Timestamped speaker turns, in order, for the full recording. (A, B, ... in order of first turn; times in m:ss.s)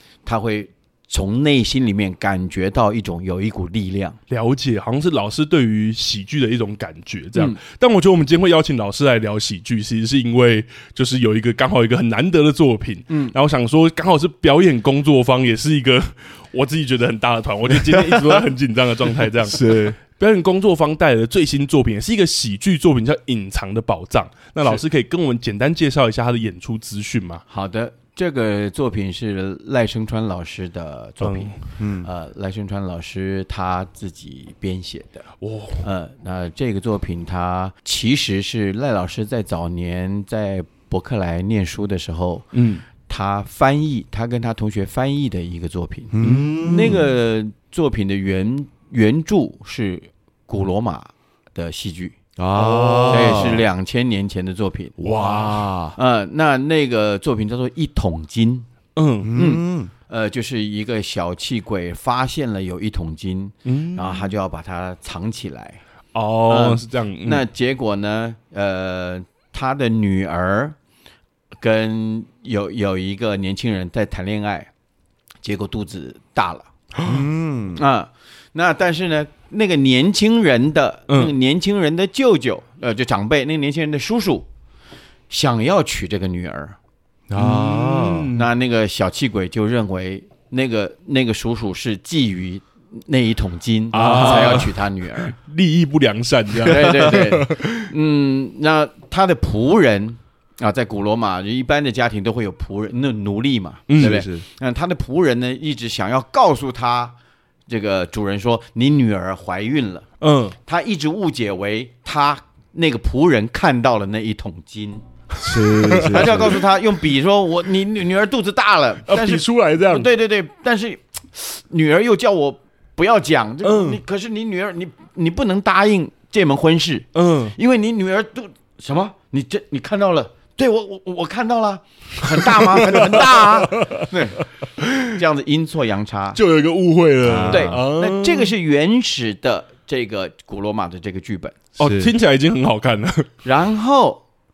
0:00.2-0:04.2 A
0:04.3-0:27.4 B
0:13.1-0:13.3 A
0:17.8-0:18.3 C
0:19.5-0:20.0 C
0:27.5-0:35.3 A
0:31.2-0:31.5 B
0:31.8-0:32.1 C
0:35.4-0:35.8 B
0:35.8-0:42.5 A
0:42.5-0:42.8 B
0:43.0-0:52.2 A
0:46.1-0:47.1 C
0:46.2-0:47.0 B
0:52.4-0:53.7 C
0:52.5-0:53.6 B
0:53.1-0:55.0 A
0:55.0-0:56.0 C
0:55.1-0:55.5 B
0:56.0-0:58.6 A
0:59.0-0:59.3 B
0:59.2-0:59.9 C
0:59.4-1:05.8 A
1:03.6-1:04.3 B
1:06.1-1:07.4 B
1:06.5-1:10.7 A
1:11.6-1:14.7 A
1:15.4-1:16.7 A
1:17.0-1:17.8 C
1:17.8-1:24.4 A
1:25.3-1:26.8 A
1:27.3-1:28.3 C
1:27.4-1:28.5 B
1:28.3-1:35.3 A
1:33.9-1:37.9 B
1:34.1-1:34.6 C
1:36.6-1:47.1 A
1:43.9-1:44.2 B
1:44.0-1:44.4 C
1:47.7-1:50.0 A
1:50.2-1:50.6 B
1:50.6-1:55.0 A
1:55.4-1:56.6 B
1:55.4-1:56.6 C
1:56.1-2:14.4 A
1:59.1-2:00.1 B
2:03.6-2:04.0 B
2:07.1-2:07.5 B
2:12.8-2:15.1 B
2:15.0-2:16.4 A
2:16.3-2:18.5 B
2:17.2-2:17.8 C
2:17.5-2:21.6 A
2:21.8-2:23.3 B
2:21.8-2:22.1 C
2:23.4-2:24.2 A